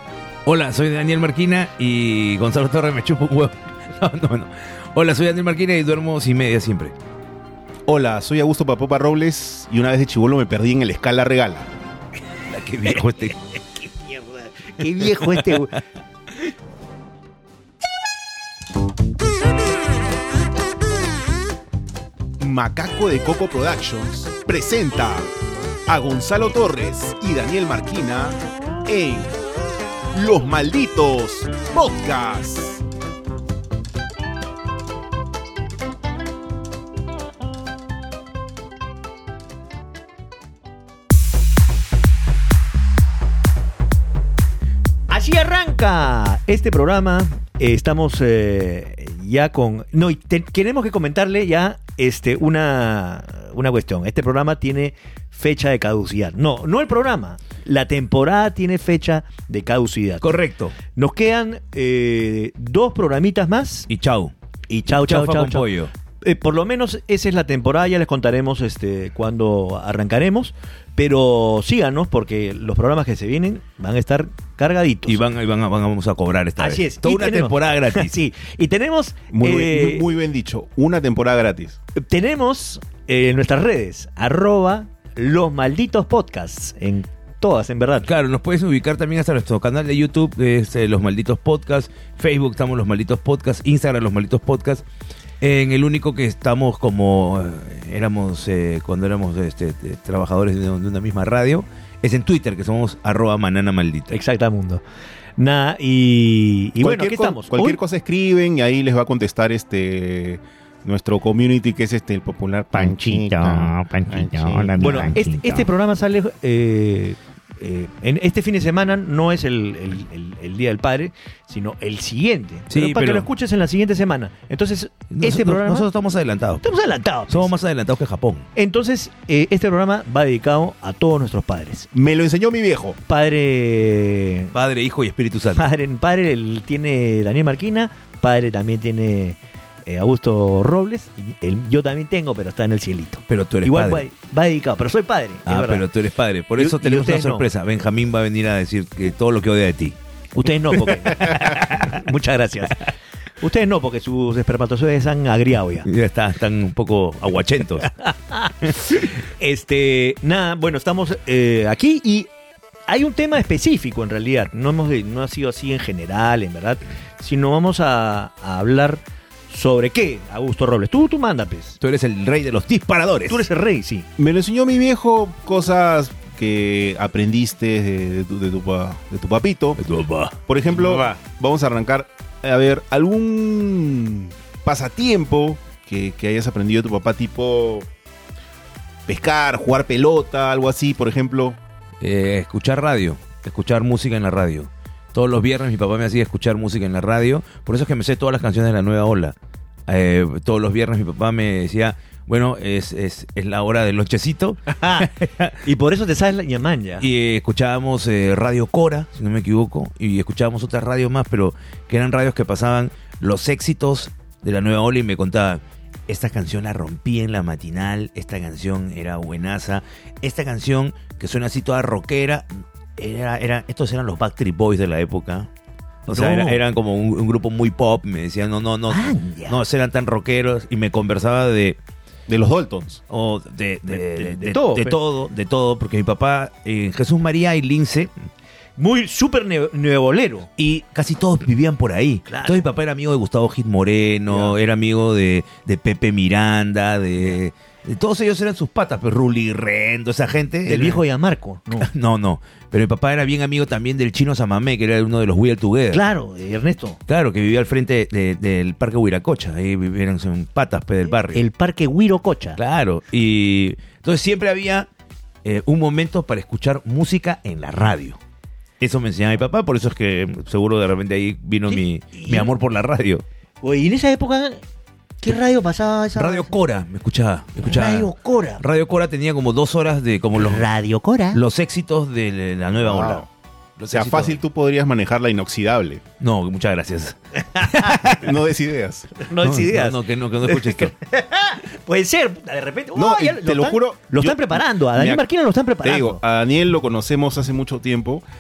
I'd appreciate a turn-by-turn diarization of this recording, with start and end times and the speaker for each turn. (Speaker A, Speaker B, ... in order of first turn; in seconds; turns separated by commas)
Speaker A: 0.5-7.0, Speaker B: 7.9-11.7, Speaker A: 12.4-13.4, Speaker C: 13.8-15.8, Speaker A: 15.0-15.6, Speaker B: 22.4-25.3, Speaker B: 25.9-29.4, Speaker B: 30.1-32.8, Speaker C: 45.1-60.4, Speaker A: 60.2-60.8, Speaker C: 61.0-63.9, Speaker A: 63.9-64.3, Speaker C: 64.7-65.7, Speaker A: 64.9-65.9, Speaker C: 66.2-75.2, Speaker A: 75.1-78.2, Speaker C: 76.6-80.1, Speaker B: 79.3-81.8, Speaker C: 82.0-88.1, Speaker A: 88.0-94.8, Speaker A: 95.4-104.2, Speaker C: 104.1-104.8, Speaker C: 105.4-107.8, Speaker B: 106.8-115.2, Speaker A: 112.7-115.7, Speaker C: 114.8-125.9, Speaker A: 122.7-123.3, Speaker A: 125.1-126.6, Speaker C: 126.6-127.5, Speaker A: 127.3-128.5, Speaker C: 128.6-131.9, Speaker B: 131.9-133.0, Speaker C: 133.1-134.5, Speaker A: 134.5-135.7, Speaker C: 135.6-145.9, Speaker A: 143.3-144.1, Speaker A: 145.5-150.0, Speaker C: 146.6-147.5, Speaker C: 150.3-155.9, Speaker A: 150.7-152.0, Speaker A: 155.8-157.9, Speaker C: 157.9-162.3, Speaker C: 162.9-171.8, Speaker A: 171.8-173.5, Speaker C: 173.3-174.1, Speaker B: 174.2-179.8, Speaker A: 179.8-181.2, Speaker B: 180.5-187.9, Speaker B: 189.1-191.6, Speaker A: 192.0-199.4, Speaker A: 199.9-205.6, Speaker C: 204.8-207.1, Speaker A: 207.0-225.5, Speaker A: 226.1-231.8, Speaker C: 226.1-226.6, Speaker C: 228.9-229.6, Speaker B: 232.3-233.0, Speaker A: 233.1-238.1, Speaker C: 233.9-235.0, Speaker C: 238.8-240.5, Speaker A: 240.6-251.0, Speaker C: 242.3-242.7, Speaker C: 250.7-251.9, Speaker A: 251.8-256.0, Speaker C: 255.9-257.0, Speaker A: 257.1-261.4, Speaker C: 261.3-262.6, Speaker A: 262.6-264.9, Speaker A: 265.4-268.2, Speaker A: 268.8-273.2, Speaker C: 271.7-272.5, Speaker C: 273.6-274.6, Speaker C: 275.2-276.5, Speaker A: 276.1-280.7, Speaker C: 277.6-278.6, Speaker C: 280.4-281.4, Speaker A: 281.3-283.2, Speaker B: 282.8-283.3, Speaker A: 283.8-284.4, Speaker B: 283.9-286.0, Speaker A: 286.2-288.3, Speaker C: 287.5-288.2, Speaker B: 288.0-289.1, Speaker C: 289.2-296.2, Speaker A: 289.4-290.9, Speaker B: 292.9-295.3, Speaker B: 295.8-298.2